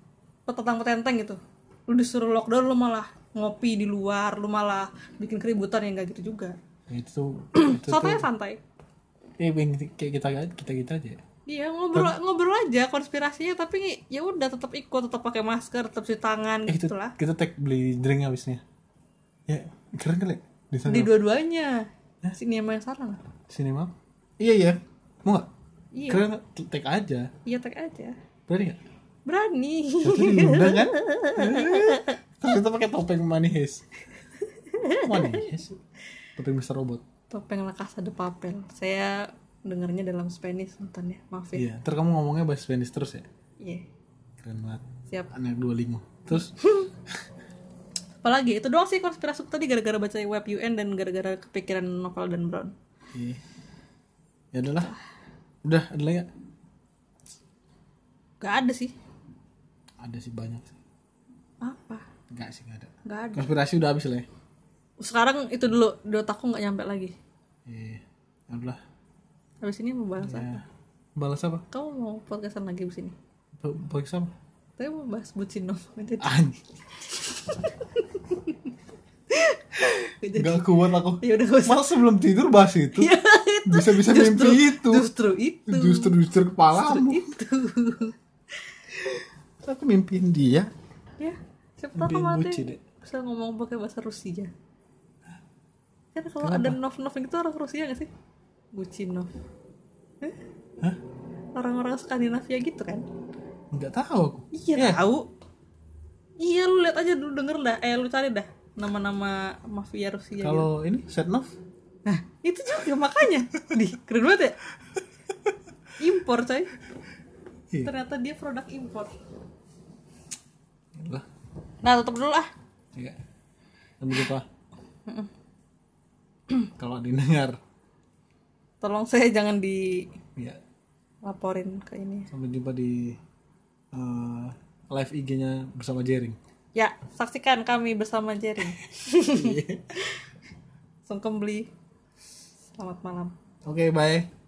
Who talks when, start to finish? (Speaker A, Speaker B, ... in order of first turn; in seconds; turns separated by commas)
Speaker A: 0.5-6.6, Speaker B: 6.9-8.3, Speaker A: 7.5-8.6, Speaker B: 9.4-11.2, Speaker A: 11.5-17.1, Speaker B: 16.7-18.6, Speaker B: 19.5-21.1, Speaker A: 20.9-23.2, Speaker B: 23.5-25.5, Speaker A: 25.9-26.2, Speaker B: 26.1-27.3, Speaker A: 27.4-28.2, Speaker B: 28.5-28.8, Speaker A: 29.3-32.2, Speaker B: 30.0-33.9, Speaker A: 34.4-35.5, Speaker B: 35.0-35.8, Speaker B: 36.4-37.0, Speaker A: 37.3-41.6, Speaker B: 41.5-43.3, Speaker A: 43.6-43.9, Speaker B: 44.4-46.5, Speaker A: 46.3-46.9, Speaker A: 48.2-52.7, Speaker B: 53.1-53.4, Speaker B: 54.5-54.9, Speaker B: 55.6-56.3, Speaker A: 58.4-58.9, Speaker B: 60.0-60.8, Speaker A: 61.6-62.1, Speaker B: 62.3-64.3, Speaker A: 63.0-63.5, Speaker A: 65.0-67.1, Speaker B: 67.7-68.8, Speaker A: 69.6-70.6, Speaker B: 70.2-70.6, Speaker B: 71.2-71.7, Speaker A: 71.7-73.2, Speaker B: 73.6-74.3, Speaker A: 74.8-76.4, Speaker B: 76.2-76.6, Speaker A: 77.0-78.7, Speaker A: 79.3-82.0, Speaker B: 80.3-85.1, Speaker A: 82.9-86.1, Speaker B: 85.7-87.3, Speaker A: 86.7-88.2, Speaker B: 89.0-90.7, Speaker A: 91.2-94.5, Speaker B: 92.0-92.8, Speaker A: 96.2-98.1, Speaker B: 96.4-96.8, Speaker A: 98.8-99.3, Speaker A: 101.6-103.1, Speaker B: 103.7-105.0, Speaker A: 104.5-105.3, Speaker A: 106.4-110.7, Speaker B: 110.4-111.5, Speaker A: 112.1-114.6, Speaker A: 116.0-116.7, Speaker A: 117.8-119.1, Speaker B: 121.0-121.3, Speaker A: 121.8-122.5, Speaker B: 124.0-124.5, Speaker B: 126.8-127.6, Speaker A: 128.8-130.1, Speaker A: 131.2-132.3, Speaker B: 132.3-133.2, Speaker B: 133.9-136.4, Speaker A: 136.8-140.2, Speaker B: 139.2-139.9, Speaker A: 141.1-141.7, Speaker A: 142.8-143.3, Speaker B: 143.7-144.3